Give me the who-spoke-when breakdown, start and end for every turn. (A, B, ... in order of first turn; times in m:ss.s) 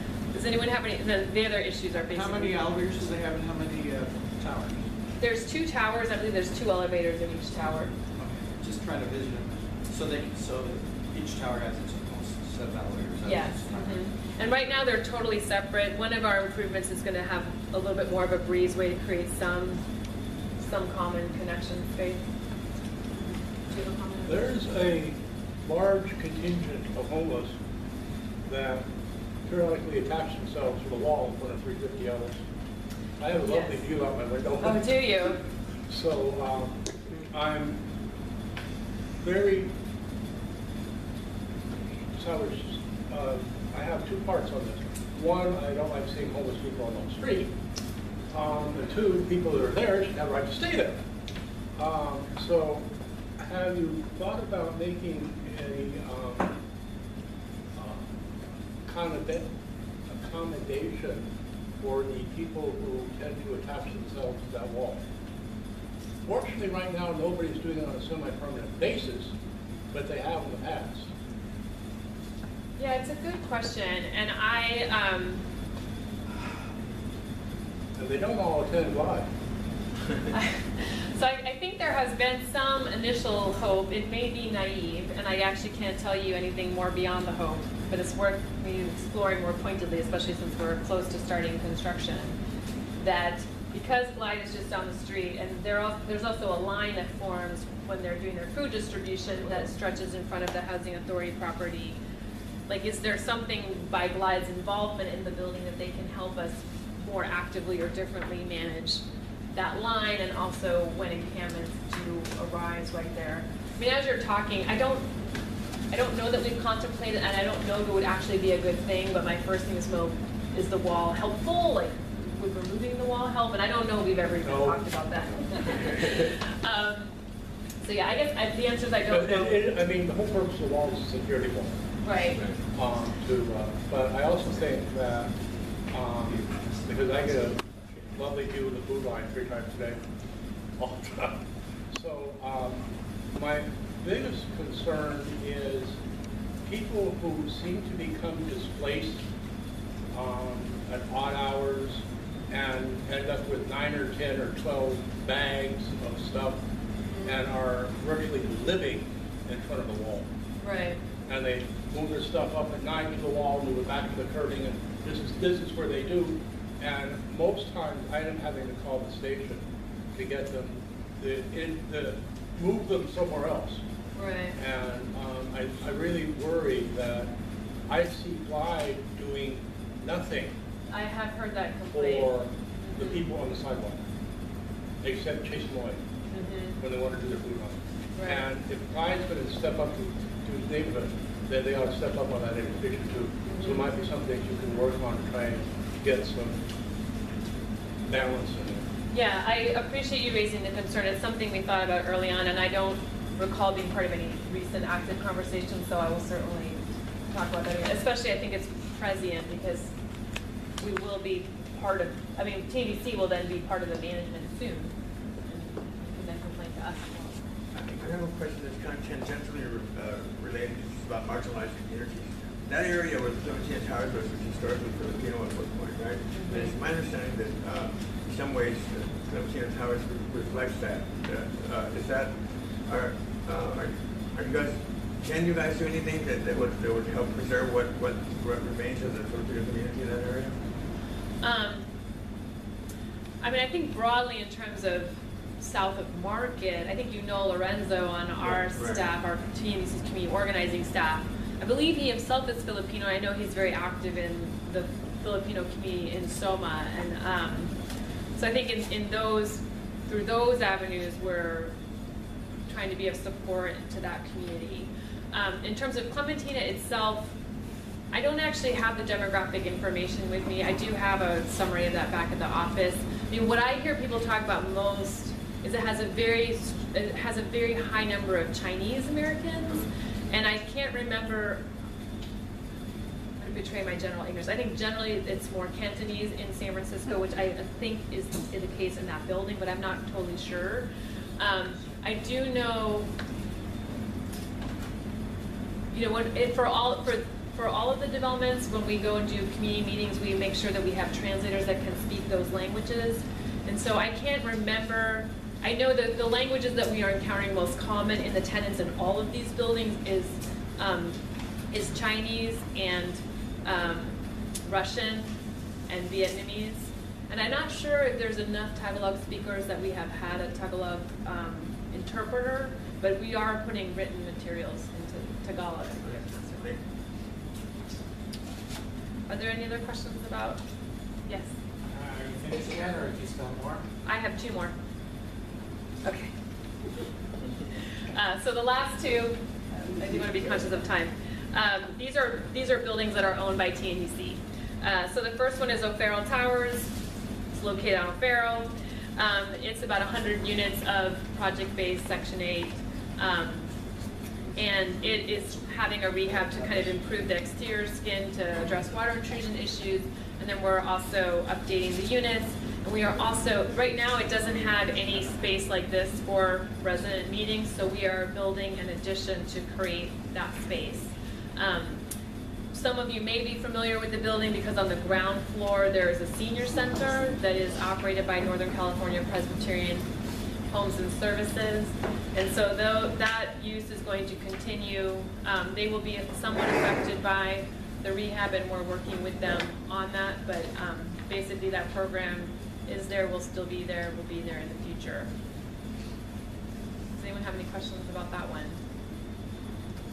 0:00.3-0:02.6 A
0:02.0-0:04.9 B
0:05.2-0:07.9 A
0:08.2-0:14.0 B
0:13.2-0:19.8 A
0:20.6-0:22.2 A
0:23.7-0:24.6 A
0:24.3-0:27.5 C
0:28.4-0:28.8 C
0:29.4-0:32.4 C
0:33.2-0:34.9 C
0:33.3-0:33.8 A
0:34.6-0:35.4 A
0:35.9-0:37.8 C
0:39.2-0:39.7 C
0:42.2-0:47.5 C
0:48.3-0:51.0 C
0:51.8-0:52.8 C
0:53.4-0:56.5 C
0:57.7-0:58.1 C
0:58.8-0:59.5 C
1:00.1-1:01.3 C
1:01.8-1:05.0 C
1:06.2-1:09.3 C
1:09.9-1:11.1 C
1:12.8-1:15.4 A
1:18.0-1:19.3 C
1:20.3-1:32.4 A
1:33.0-1:42.0 A
1:42.7-1:49.0 A
1:49.5-1:55.2 A
1:55.9-2:07.1 A
2:04.4-2:04.9 C
2:07.8-2:09.6 A
2:09.1-2:11.7 C
2:12.0-2:12.4 A
2:12.3-2:12.6 D
2:12.7-2:15.3 C
2:15.9-2:20.0 C
2:20.8-2:21.4 C
2:21.9-2:26.0 C
2:26.6-2:29.2 C
2:30.1-2:36.6 C
2:37.0-2:37.4 A
2:37.2-2:40.2 C
2:40.6-2:41.0 A
2:41.3-2:49.6 C
2:50.1-2:53.8 C
2:54.1-2:54.6 A
2:54.6-2:57.3 C
2:57.9-3:00.5 C
3:00.9-3:02.3 A
3:01.9-3:04.0 C
3:02.8-3:03.2 A
3:05.0-3:06.0 C
3:06.3-3:06.8 A
3:06.8-3:16.6 C
3:08.1-3:08.4 A
3:13.4-3:13.9 A
3:18.1-3:18.8 C
3:19.1-3:29.9 A
3:30.8-3:34.9 A
3:35.4-3:37.4 A
3:37.7-4:00.6 D
3:46.3-3:46.7 A
4:01.4-4:01.8 A
4:03.4-4:17.7 A
4:08.4-4:09.0 D
4:18.3-4:21.7 A
4:22.7-4:27.3 A
4:28.1-4:41.6 A
4:43.4-4:50.9 A
4:51.4-4:53.1 A
4:55.9-5:11.2 A
5:11.7-5:15.3 A
5:15.9-5:26.7 A
5:26.0-5:26.8 D
5:29.3-5:30.6 A
5:31.9-5:33.8 E
5:34.0-5:34.7 A
5:36.0-5:36.3 A
5:38.0-5:46.9 A
5:47.5-5:53.7 A
5:54.6-6:12.0 A
6:12.7-6:20.1 A
6:20.7-6:35.3 A
6:37.1-6:38.8 A